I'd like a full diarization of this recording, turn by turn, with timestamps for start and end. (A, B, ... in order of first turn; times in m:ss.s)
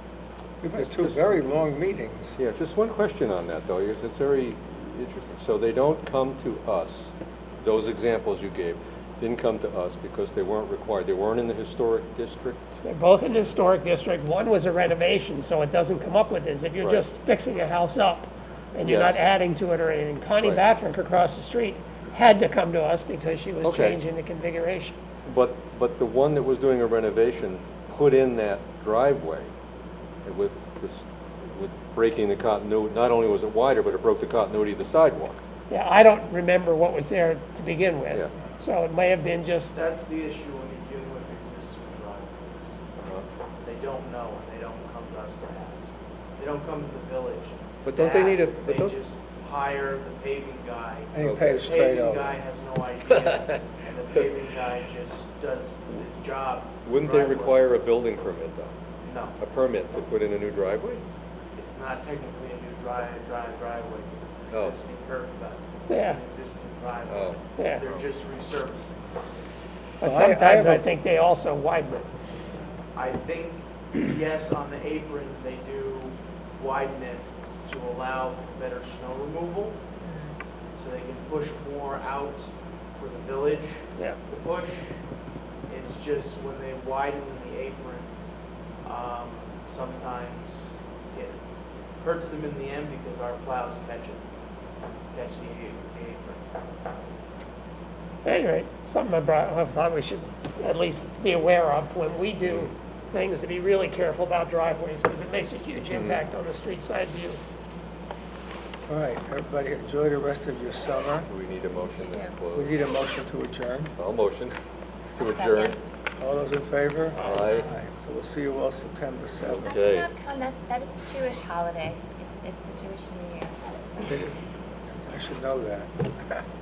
0:00.6-0:02.4 A
0:00.8-0:01.4 B
0:02.4-0:12.7 B
0:12.8-0:25.0 C
0:18.8-0:19.2 B
0:23.6-0:24.0 B
0:25.2-0:29.5 B
0:30.2-0:35.4 B
0:35.7-0:39.7 C
0:39.7-0:42.7 D
0:43.6-0:57.6 D
0:47.8-0:49.0 B
0:51.1-0:52.4 A
0:51.2-0:51.6 B
0:53.2-0:53.6 B
0:56.8-0:58.7 B
0:59.0-0:59.4 D
0:59.4-1:01.0 B
1:01.6-1:09.0 D
1:04.5-1:04.8 B
1:05.9-1:06.2 C
1:07.0-1:08.0 B
1:07.6-1:07.8 C
1:10.0-1:12.0 C
1:10.0-1:10.9 A
1:13.0-1:19.8 D
1:20.0-1:20.4 E
1:20.8-1:25.0 D
1:25.7-1:28.1 D
1:28.8-1:31.4 D
1:32.0-1:34.2 D
1:35.1-1:36.4 D
1:38.2-1:47.4 C
1:42.4-1:42.7 B
1:45.9-1:46.2 B
1:48.8-1:51.3 A
1:51.2-1:52.7 B
1:52.0-1:52.3 E
1:52.5-1:53.9 A
1:54.0-1:54.5 B
1:55.1-1:55.8 B
1:55.2-1:55.8 E
1:56.2-1:59.8 A
1:57.2-1:57.6 B
1:59.4-2:00.1 B
1:59.6-2:04.1 E
2:04.0-2:06.4 A